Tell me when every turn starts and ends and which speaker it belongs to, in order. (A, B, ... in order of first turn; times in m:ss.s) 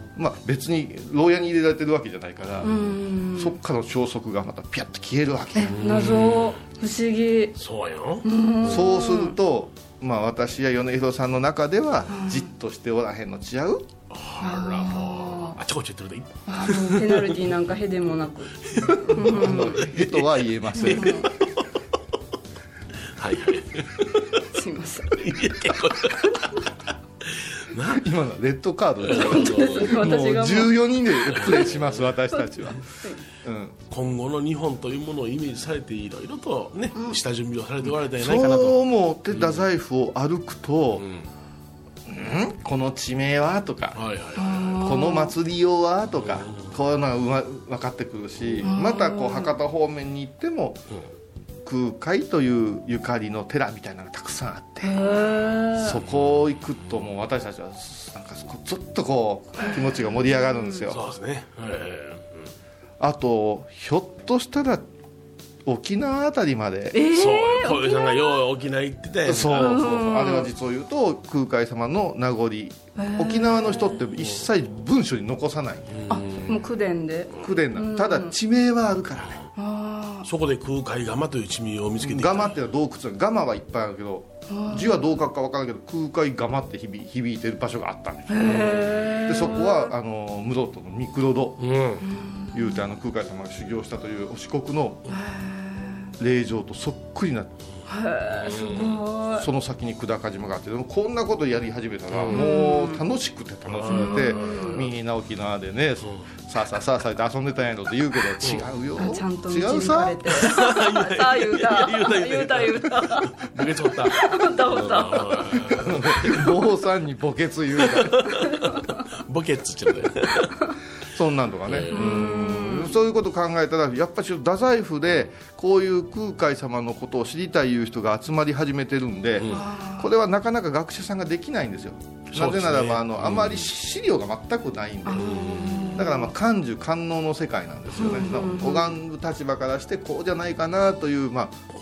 0:00.1-0:02.8 A
0:02.6-0:03.6 B
0:03.3-0:05.8 A
0:05.6-0:07.5 B
0:05.7-0:06.6 C
0:07.6-0:08.2 C
0:08.2-0:09.4 B
0:08.6-0:13.9 A
0:12.1-0:12.4 B
0:14.1-0:17.4 C
0:14.4-0:15.6 B
0:16.5-0:19.9 B
0:18.7-0:21.6 C
0:19.2-0:21.3 A
0:20.8-0:21.3 B
0:23.2-0:24.4 C
0:24.5-0:25.2 B
0:25.1-0:26.7 C
0:27.3-0:28.1 C
0:27.9-0:32.8 A
0:29.0-0:29.9 C
0:29.0-0:30.8 B
0:31.4-0:32.1 C
0:32.9-0:33.2 B
0:33.4-0:33.8 A
0:33.9-0:39.6 C
0:37.9-0:41.0 A
0:41.0-0:41.3 C
0:42.0-0:44.0 A
0:43.9-0:44.8 C
0:44.4-0:45.3 B
0:44.8-0:50.9 A
0:46.2-0:46.8 C
0:48.6-0:49.5 B
0:51.6-0:55.0 A
0:54.8-0:56.0 B
0:55.7-1:01.0 A
0:59.6-1:00.8 B
1:00.9-1:02.5 C
1:03.0-1:04.8 A
1:05.6-1:07.0 A
1:06.9-1:08.4 B
1:07.1-1:09.7 C
1:09.2-1:16.1 A
1:09.5-1:10.5 B
1:13.0-1:14.0 B
1:14.2-1:14.4 C
1:15.9-1:16.6 C
1:16.1-1:18.4 B
1:17.4-1:19.4 A
1:19.6-1:20.3 B
1:20.2-1:22.6 C
1:22.0-1:31.7 A
1:24.5-1:25.1 B
1:28.3-1:29.9 B
1:28.4-1:29.2 C
1:31.6-1:32.0 C
1:32.0-1:32.8 B
1:32.5-1:35.0 A
1:35.1-1:36.1 B
1:36.2-1:37.5 A
1:37.9-1:39.5 B
1:38.4-1:39.0 C
1:39.4-1:50.4 A
1:42.1-1:42.4 C
1:42.3-1:43.0 B
1:43.7-1:44.9 C
1:43.9-1:44.8 B
1:49.0-1:55.7 B
1:50.4-1:56.5 C
1:55.8-1:58.2 A
1:57.9-2:00.5 C
2:01.1-2:21.6 A
2:01.7-2:02.0 C
2:01.9-2:03.0 B
2:09.4-2:09.6 C
2:09.5-2:10.1 B
2:12.3-2:13.7 C
2:15.0-2:16.3 B
2:15.2-2:16.0 C
2:18.0-2:19.0 B